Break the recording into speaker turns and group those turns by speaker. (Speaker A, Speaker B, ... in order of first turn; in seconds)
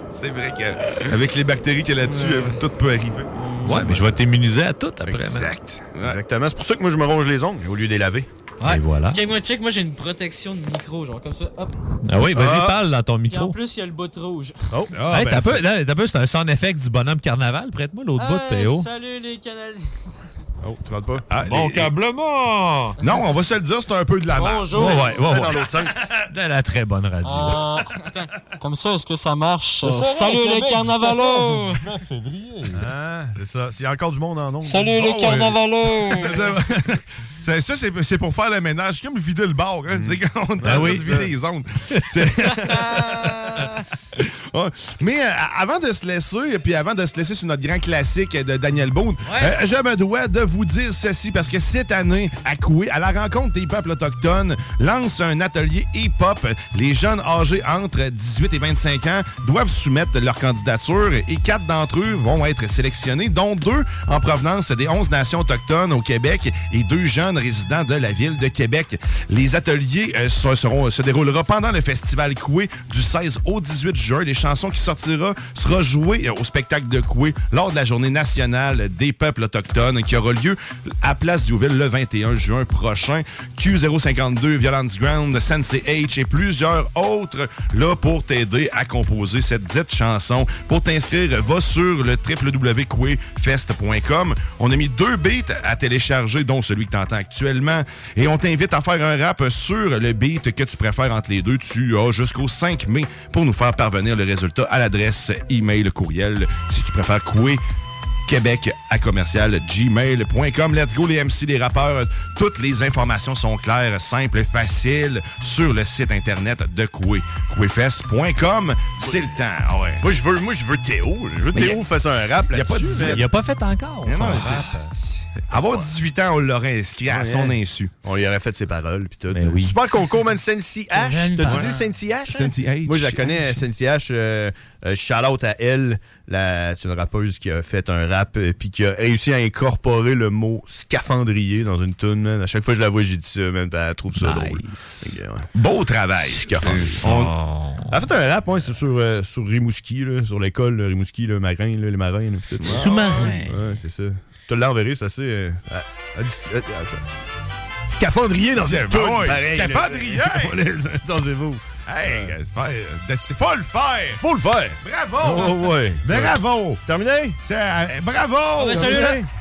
Speaker A: 0.1-3.3, 5.9-6.2, 14.9-15.6, 21.3-21.9, 23.0-25.6, 34.9-107.6, 108.3-120.0, 122.5-123.3, 124.0-127.9, 131.5-131.7, 132.3-133.6, 145.6-147.3, 152.7-153.4, 158.6-160.6, 161.9-164.2, 164.8-166.8, 167.4-169.1
Speaker B: 2.0-2.6, 3.3-4.0, 8.6-11.8, 13.3-14.7, 18.2-19.9, 24.3-25.2, 27.2-31.8, 34.7-36.5, 42.5-43.8, 49.2-49.6, 130.9-132.4, 152.7-153.5, 168.6-169.2
Speaker C: 3.6-5.5, 8.6-9.2, 12.0-13.6, 15.1-18.9, 21.4-23.0, 24.7-25.7, 26.2-27.7, 29.8-32.8, 40.6-41.3, 123.0-124.9, 129.3-129.8, 144.2-145.2, 146.5-147.9, 152.9-153.6
Speaker D: 5.0-8.3, 12.3-12.8, 14.7-15.0, 20.6-21.3, 24.8-26.1, 32.7-35.0, 39.9-41.3, 119.0-119.3, 120.0-123.2, 124.3-124.5, 125.5-125.9, 127.1-145.5, 146.4-147.0, 147.9-157.0, 157.9-162.3, 164.2-167.4, 168.7-169.3